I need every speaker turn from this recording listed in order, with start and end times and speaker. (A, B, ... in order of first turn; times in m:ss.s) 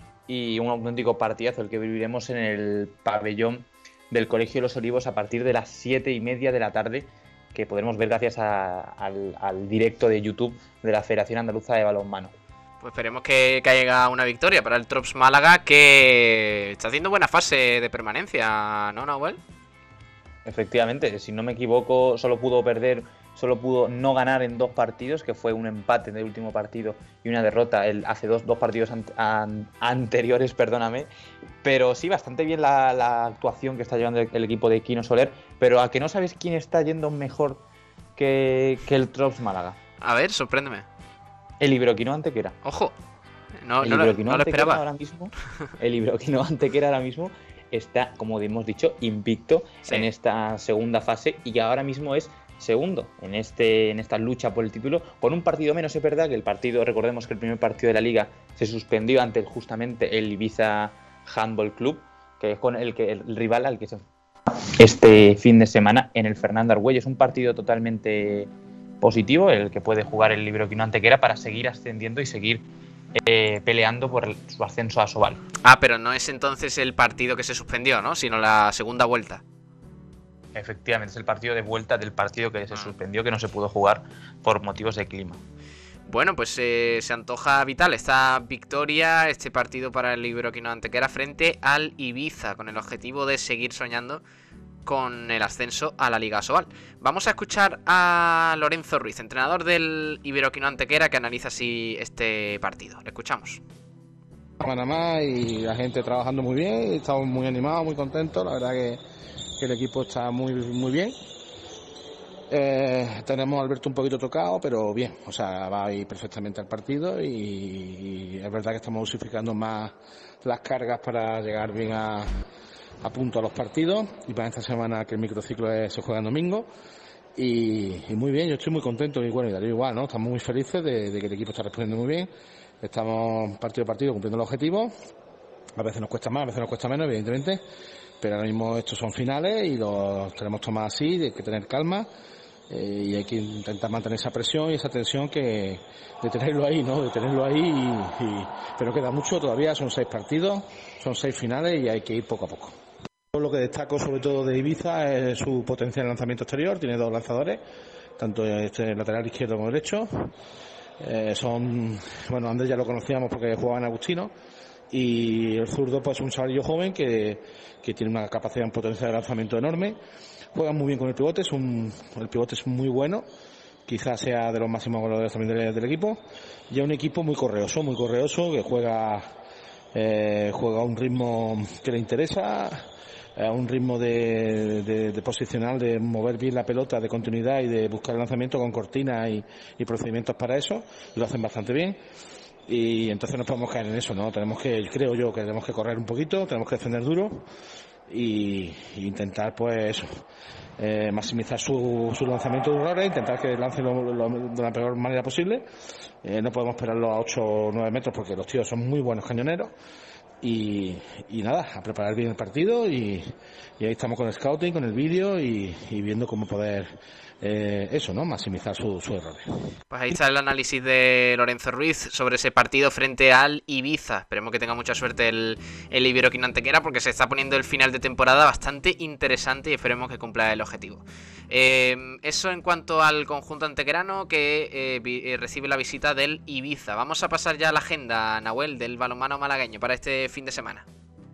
0:00.3-0:12.3 A
0:12.8-0:19.4 B
0:20.4-0:31.1 A
0:31.6-0:37.6 A
0:38.2-0:39.8 A
0:40.0-0:40.9 B
0:41.6-0:42.6 A
0:42.6-0:42.9 B
0:43.6-0:44.8 B
0:43.8-1:04.0 A
1:04.8-1:12.6 A
1:13.2-1:15.4 A
1:15.6-1:19.4 B
1:20.5-1:25.4 A
1:26.1-1:34.2 B
1:34.8-1:43.6 B
1:44.6-1:49.0 C
1:49.6-1:51.2 C
1:52.5-2:02.4 C
2:03.0-2:06.7 C
2:07.3-2:12.3 C
2:12.8-2:14.9 C
2:15.8-2:17.6 C
2:18.2-2:22.1 C
2:22.7-2:32.8 C
2:33.3-2:37.6 C
2:38.2-2:40.3 C
2:41.0-2:44.3 C
2:44.9-2:50.0 C
2:50.5-2:53.3 C
2:53.8-2:59.3 C
2:59.9-3:12.0 C
3:12.7-3:17.4 C
3:18.1-3:20.2 C
3:20.8-3:25.6 C
3:26.2-3:29.7 C
3:30.4-3:39.4 C
3:39.9-4:00.8 B